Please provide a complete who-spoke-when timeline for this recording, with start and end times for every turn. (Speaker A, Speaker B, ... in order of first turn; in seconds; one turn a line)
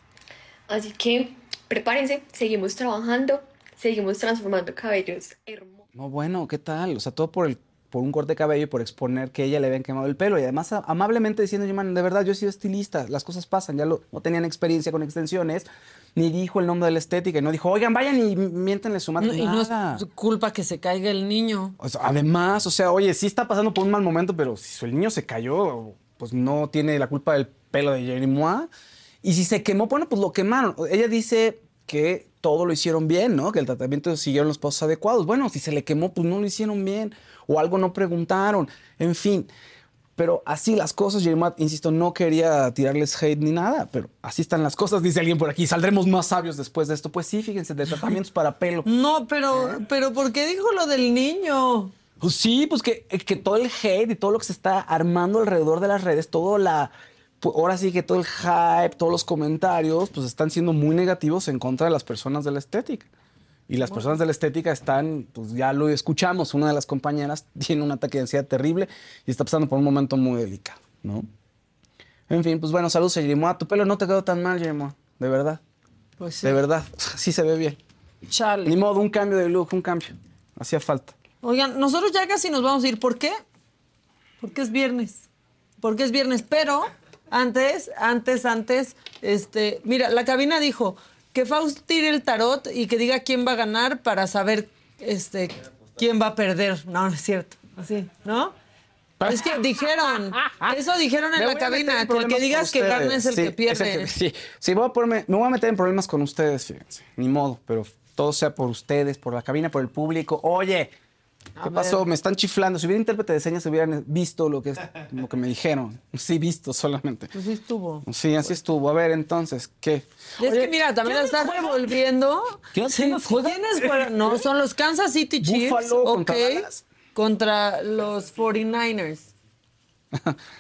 Speaker A: 0.7-5.9
Speaker B: 6.0-20.0
Speaker C: 19.2-21.8
Speaker B: 21.8-28.7
Speaker B: 29.2-39.5
Speaker B: 40.2-48.9
Speaker C: 48.9-51.9
Speaker B: 49.5-49.8
Speaker B: 52.2-63.1
Speaker B: 63.7-71.3
Speaker C: 63.8-64.2
Speaker B: 72.3-75.6
Speaker C: 76.2-76.6
Speaker B: 76.4-77.8
Speaker C: 78.3-78.8
Speaker B: 78.7-81.2
Speaker C: 81.4-83.4
Speaker C: 84.4-85.3
Speaker C: 85.8-98.5
Speaker B: 99.2-100.7
Speaker C: 99.2-104.1
Speaker B: 101.4-110.9
Speaker C: 111.6-112.0
Speaker B: 111.6-117.3
Speaker C: 117.3-118.5
Speaker B: 118.1-121.8
Speaker C: 120.4-129.3
Speaker B: 122.7-124.4
Speaker B: 125.4-126.8